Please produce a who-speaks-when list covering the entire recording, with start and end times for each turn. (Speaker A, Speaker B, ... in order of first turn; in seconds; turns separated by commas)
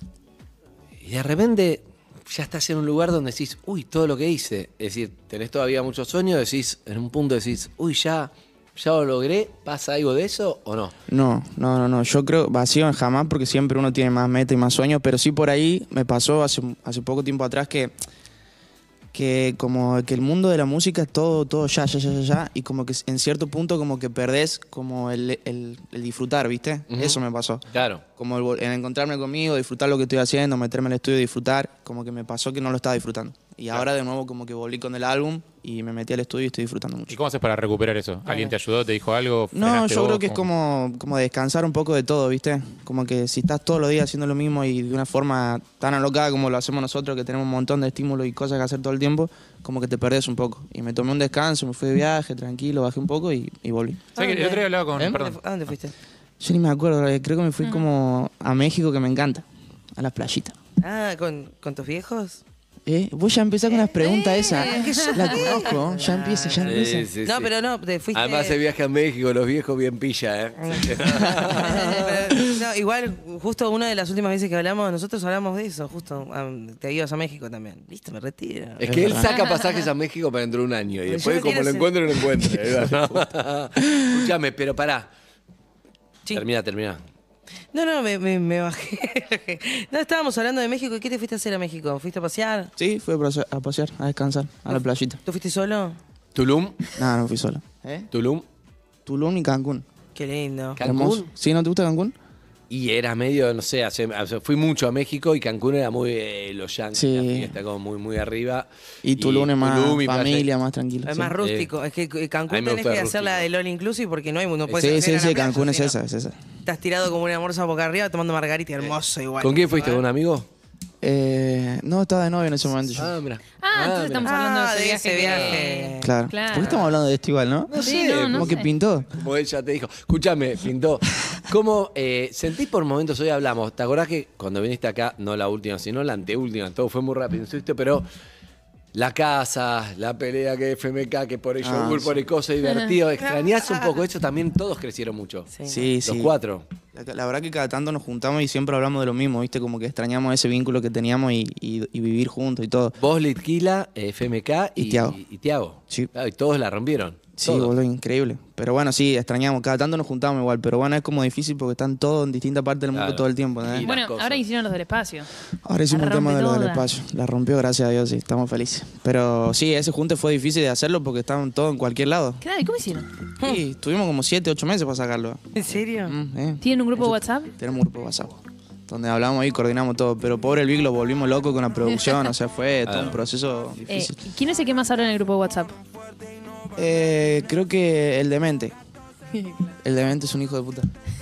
Speaker A: 1.0-10.9, Speaker B: 11.1-17.9, Speaker B: 19.1-27.6, Speaker A: 26.9-27.2, Speaker A: 27.7-28.0, Speaker B: 28.1-37.2, Speaker C: 37.1-40.4, Speaker B: 39.5-54.0, Speaker C: 54.1-55.4, Speaker D: 54.1-55.9, Speaker B: 56.4-60.5, Speaker D: 60.8-62.4, Speaker B: 62.9-67.1, Speaker E: 64.2-65.4, Speaker D: 64.5-68.6, Speaker A: 66.6-67.5, Speaker A: 68.1-72.3, Speaker D: 70.6-78.8, Speaker A: 78.8-85.1, Speaker B: 78.8-79.3, Speaker D: 81.1-82.3, Speaker A: 86.3-87.0, Speaker D: 87.7-92.7, Speaker B: 92.8-95.2, Speaker D: 94.7-96.0, Speaker A: 96.3-96.8, Speaker B: 96.9-98.1, Speaker A: 98.1-98.4, Speaker B: 99.0-99.8, Speaker D: 100.1-100.8, Speaker A: 100.8-101.3, Speaker B: 100.8-102.1, Speaker A: 102.7-110.5, Speaker B: 106.9-107.5, Speaker B: 109.0-111.3, Speaker D: 111.0-116.0, Speaker A: 111.4-111.7, Speaker A: 112.5-113.5, Speaker A: 114.7-115.0, Speaker B: 114.7-116.4, Speaker D: 116.6-120.0, Speaker A: 118.8-120.5, Speaker B: 121.0-123.2, Speaker A: 122.9-124.3, Speaker E: 123.6-126.8, Speaker D: 124.2-126.1, Speaker A: 125.2-125.6, Speaker B: 126.0-129.1, Speaker A: 127.7-128.6, Speaker E: 127.8-128.7, Speaker A: 129.1-138.1, Speaker A: 138.9-145.5, Speaker B: 141.6-142.2, Speaker D: 145.5-145.8, Speaker B: 145.7-146.3, Speaker A: 146.0-146.7, Speaker B: 146.9-153.0, Speaker A: 153.0-157.7, Speaker B: 154.8-155.2, Speaker B: 157.4-163.9, Speaker A: 162.9-164.4, Speaker E: 163.8-165.3, Speaker B: 165.6-172.4, Speaker E: 165.9-166.8, Speaker E: 172.4-173.1, Speaker B: 173.4-184.2, Speaker D: 175.5-176.1, Speaker E: 176.6-177.5, Speaker A: 182.8-183.2, Speaker E: 183.9-185.8, Speaker B: 186.7-188.7, Speaker E: 189.4-189.7, Speaker B: 189.8-190.9